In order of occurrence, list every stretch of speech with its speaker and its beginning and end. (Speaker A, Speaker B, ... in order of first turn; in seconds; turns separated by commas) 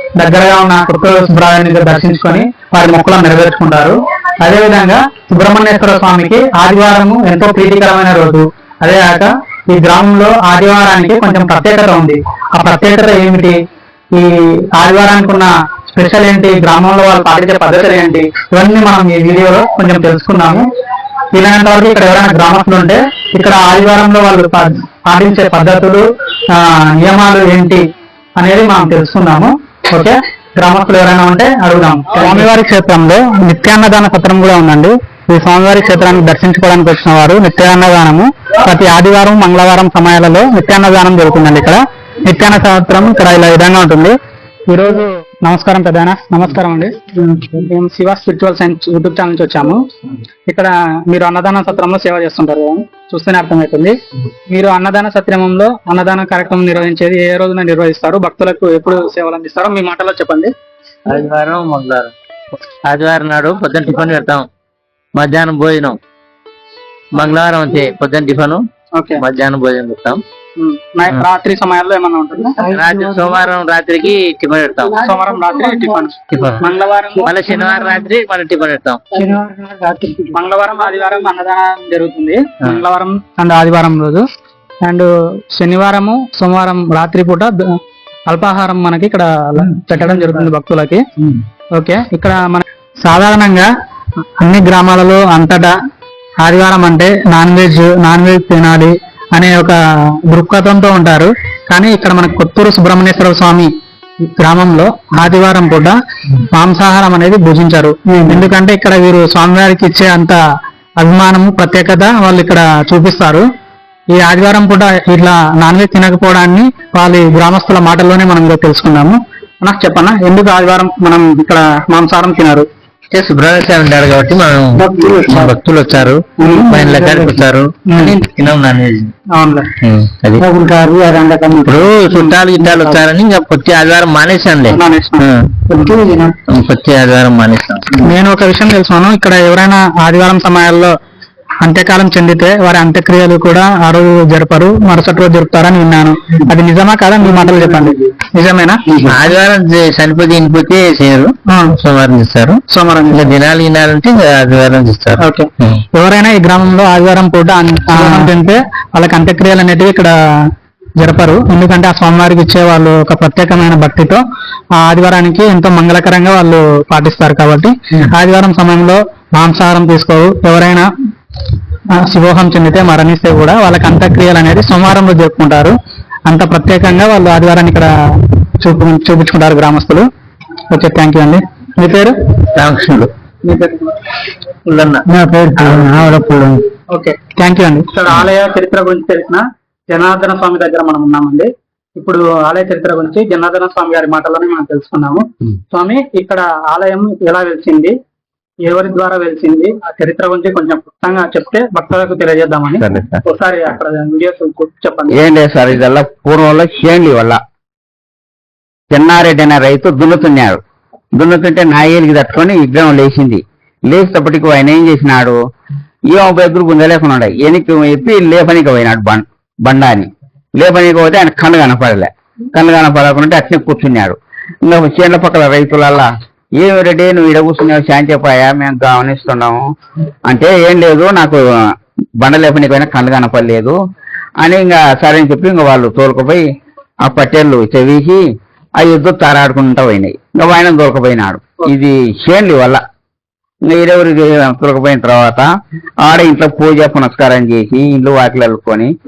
Speaker A: 0.2-13.6, Speaker A: 14.2-20.7, Speaker A: 21.3-27.8, Speaker A: 28.4-44.2, Speaker A: 44.7-49.8, Speaker A: 50.5-54.0, Speaker A: 54.5-60.5, Speaker B: 61.1-62.1, Speaker B: 62.9-64.5, Speaker B: 65.2-66.0, Speaker B: 67.1-68.6, Speaker A: 69.0-69.2, Speaker B: 69.2-70.2, Speaker A: 70.6-72.6, Speaker B: 72.7-75.0, Speaker A: 75.0-77.3, Speaker B: 76.3-76.7, Speaker B: 77.2-79.0, Speaker A: 79.2-84.2, Speaker A: 84.8-87.6, Speaker A: 88.3-91.0, Speaker A: 91.8-93.7, Speaker A: 94.4-95.8, Speaker A: 96.4-103.7, Speaker A: 104.4-110.4, Speaker A: 111.0-113.4, Speaker A: 114.2-122.7, Speaker B: 123.1-129.1, Speaker A: 124.8-125.5, Speaker A: 126.4-127.4, Speaker A: 127.9-128.2, Speaker A: 129.3-129.7, Speaker B: 129.8-130.4, Speaker A: 130.4-133.0, Speaker B: 131.6-135.5, Speaker A: 134.7-136.3, Speaker B: 136.5-138.1, Speaker A: 138.0-141.0, Speaker A: 141.6-148.8, Speaker B: 149.0-152.6, Speaker A: 151.5-151.7, Speaker A: 152.7-153.3, Speaker B: 153.1-155.8, Speaker A: 155.2-160.1, Speaker A: 161.0-164.2, Speaker A: 164.8-170.9, Speaker A: 171.9-175.7, Speaker A: 176.3-177.9, Speaker A: 178.6-180.1, Speaker A: 180.7-182.1, Speaker B: 182.6-183.1, Speaker A: 183.4-183.9, Speaker B: 184.7-185.0, Speaker A: 185.1-197.9, Speaker B: 185.6-185.8, Speaker A: 198.7-205.2, Speaker C: 202.8-203.2, Speaker C: 205.1-207.4, Speaker C: 208.9-210.6, Speaker C: 211.2-215.4, Speaker C: 216.1-229.6, Speaker C: 230.3-231.4, Speaker C: 232.2-233.8, Speaker C: 234.4-236.4, Speaker C: 237.0-238.2, Speaker C: 238.8-242.8, Speaker C: 243.7-245.5, Speaker C: 246.0-248.9